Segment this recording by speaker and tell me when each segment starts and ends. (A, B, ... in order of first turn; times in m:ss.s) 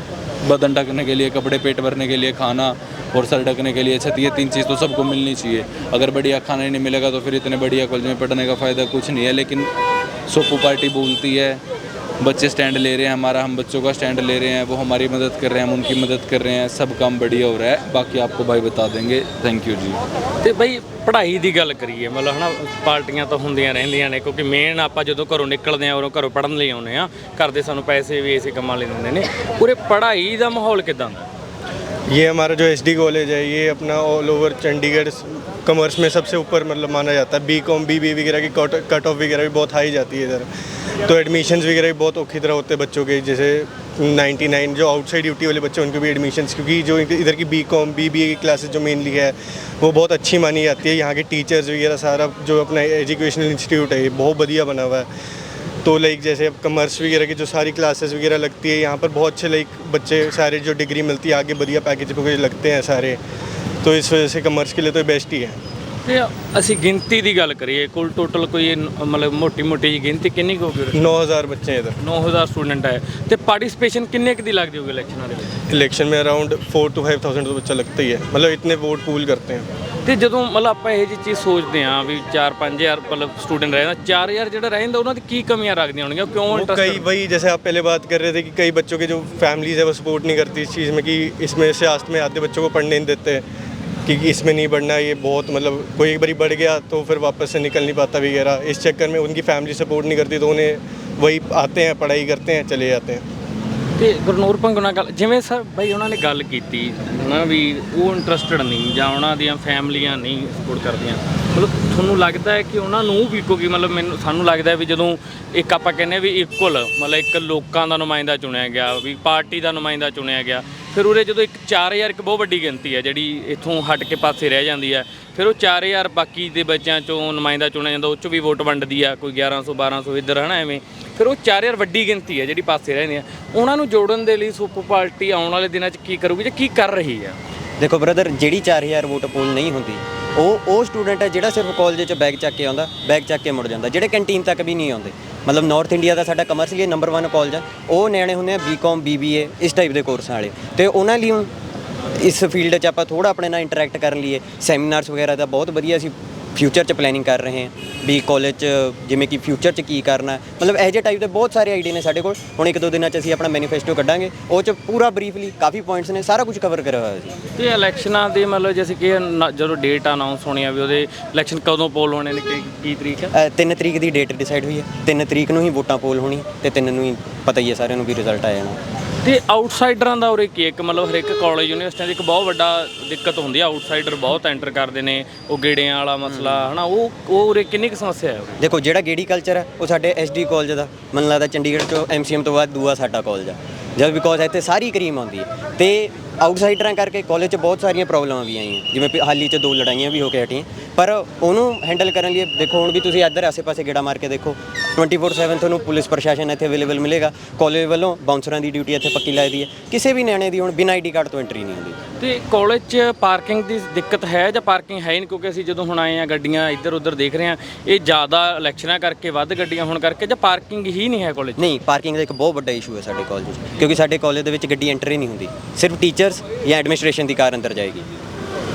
0:00.4-0:09.7 A
0:10.3-0:11.6 A
0:12.2-0:20.0 A
0:20.4-0:31.3 B
0:32.1-0:40.5 C
0:41.0-0:55.1 C
0:55.8-1:03.2 C
1:03.8-1:05.6 C
1:06.0-1:11.1 B
1:10.9-1:12.0 C
1:12.0-1:15.6 B
1:15.7-1:19.7 C
1:20.0-1:27.0 B
1:26.5-1:33.4 C
1:34.0-1:43.2 C
1:44.0-2:17.4 B
2:17.8-2:31.5 D
2:32.1-2:47.4 D
2:47.6-2:53.3 B
2:53.3-2:58.8 D
2:59.2-3:08.6 B
3:06.2-3:06.7 D
3:08.6-3:32.0 D
3:32.2-3:41.6 B
3:41.6-3:48.0 D